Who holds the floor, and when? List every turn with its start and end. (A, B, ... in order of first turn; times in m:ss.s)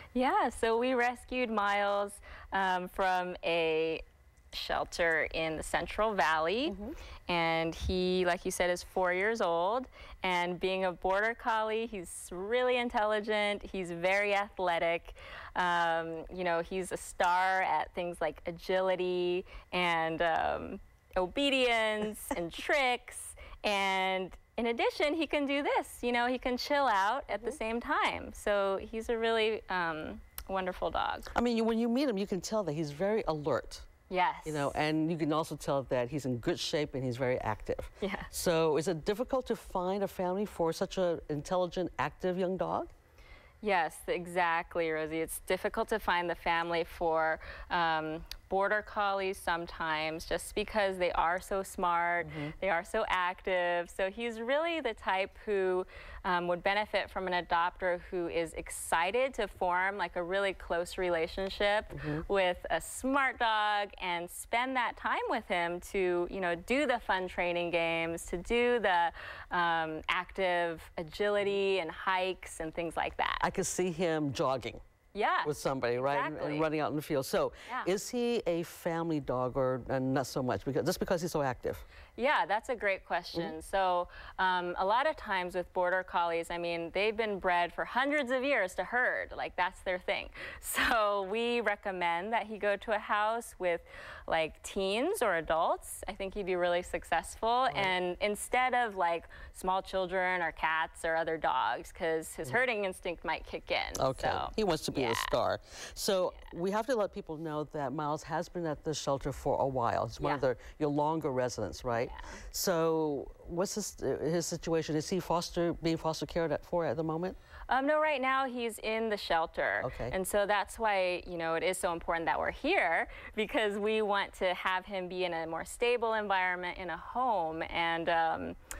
0:00.1-0:06.8 A
0:06.7-0:07.0 B
0:07.3-0:31.3 A
0:27.3-0:27.6 B
0:31.3-0:33.9 B
0:34.1-0:34.7 A
0:34.4-0:42.9 B
0:38.0-0:38.3 A
0:43.6-1:13.4 A
0:52.2-0:52.5 B
1:01.9-1:02.2 B
1:13.4-1:14.8 B
1:15.1-1:16.7 A
1:15.4-1:21.8 B
1:22.2-1:45.3 A
1:44.0-1:57.4 B
1:51.9-1:52.4 A
1:57.7-2:08.6 A
1:59.8-2:00.1 B